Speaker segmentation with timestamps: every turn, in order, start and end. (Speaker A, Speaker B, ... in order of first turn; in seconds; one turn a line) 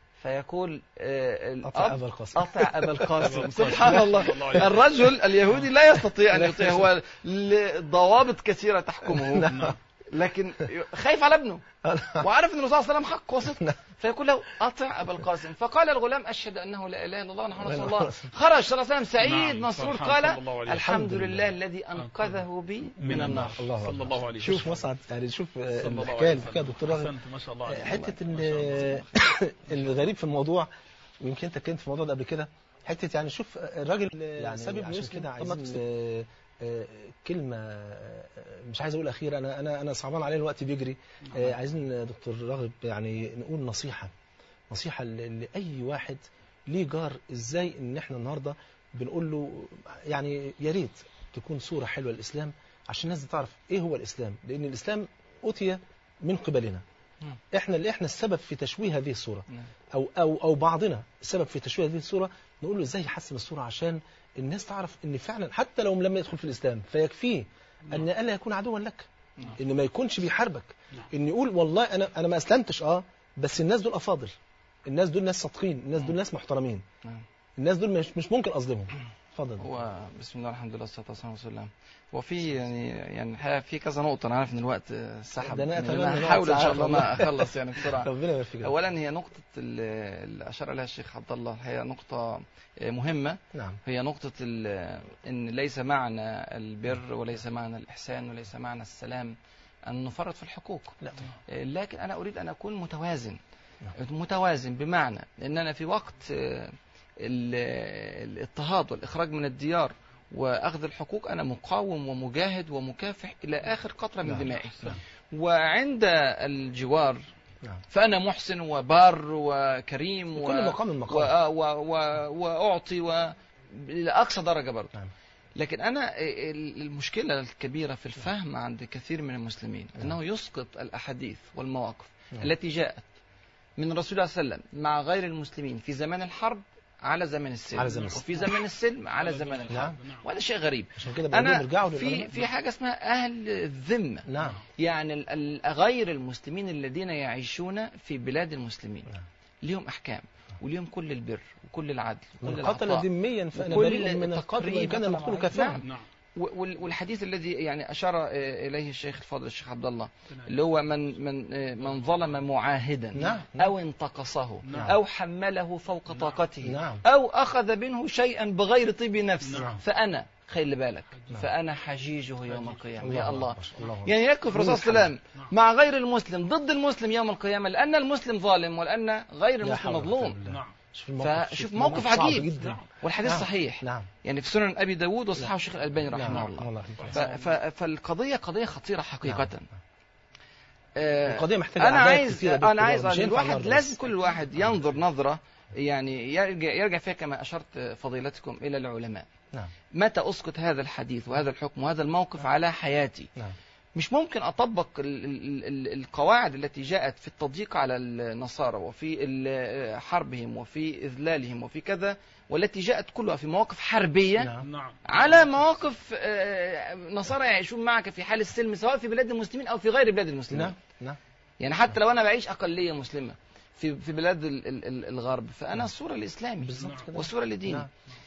Speaker A: 0.2-11.6
Speaker B: 1.6-4.0
Speaker C: 3.2-5.0
Speaker B: 6.3-6.9
Speaker B: 9.1-9.8
Speaker C: 9.3-9.8
Speaker B: 11.8-12.3
Speaker A: 12.2-23.6
Speaker B: 13.5-13.8
Speaker B: 17.6-18.3
Speaker C: 19.2-21.0
Speaker B: 20.7-21.5
Speaker C: 21.9-22.4
Speaker C: 23.0-24.8
Speaker B: 23.0-30.7
Speaker A: 24.4-24.8
Speaker C: 25.8-29.1
Speaker B: 31.2-44.1
Speaker C: 41.2-41.5
Speaker B: 44.7-56.8
Speaker B: 57.5-74.3
Speaker B: 74.8-76.8
Speaker B: 77.6-79.7
Speaker A: 79.6-101.0
Speaker B: 85.4-88.7
Speaker B: 93.5-93.8
Speaker A: 101.5-103.4
Speaker A: 103.9-117.2
Speaker B: 114.2-114.5
Speaker C: 114.5-115.0
Speaker A: 117.9-124.9
Speaker B: 120.4-121.3
Speaker A: 125.5-133.1
Speaker A: 133.8-149.1
Speaker B: 137.7-138.2
Speaker C: 139.2-140.2
Speaker B: 139.7-140.0
Speaker B: 140.9-142.5
Speaker B: 144.3-144.6
Speaker C: 144.4-144.6
Speaker A: 149.6-180.4
Speaker B: 152.4-155.8
Speaker C: 161.8-162.4
Speaker B: 163.1-163.7
Speaker C: 164.6-165.0
Speaker B: 164.7-165.0
Speaker C: 166.1-166.4
Speaker B: 166.6-167.0
Speaker C: 169.4-169.8
Speaker C: 171.1-171.5
Speaker C: 172.5-173.2
Speaker B: 173.0-175.1
Speaker B: 179.6-184.1
Speaker C: 180.4-180.7
Speaker A: 181.2-189.7
Speaker C: 182.3-182.9
Speaker B: 186.1-187.2
Speaker C: 186.2-187.5
Speaker B: 189.2-189.5
Speaker A: 190.9-199.2
Speaker B: 191.2-194.0
Speaker A: 199.9-203.3
Speaker A: 203.9-214.5
Speaker B: 214.4-214.7
Speaker C: 214.6-215.6
Speaker A: 215.1-220.8
Speaker B: 220.5-221.2
Speaker A: 221.6-227.9
Speaker B: 226.6-227.9
Speaker C: 226.8-227.2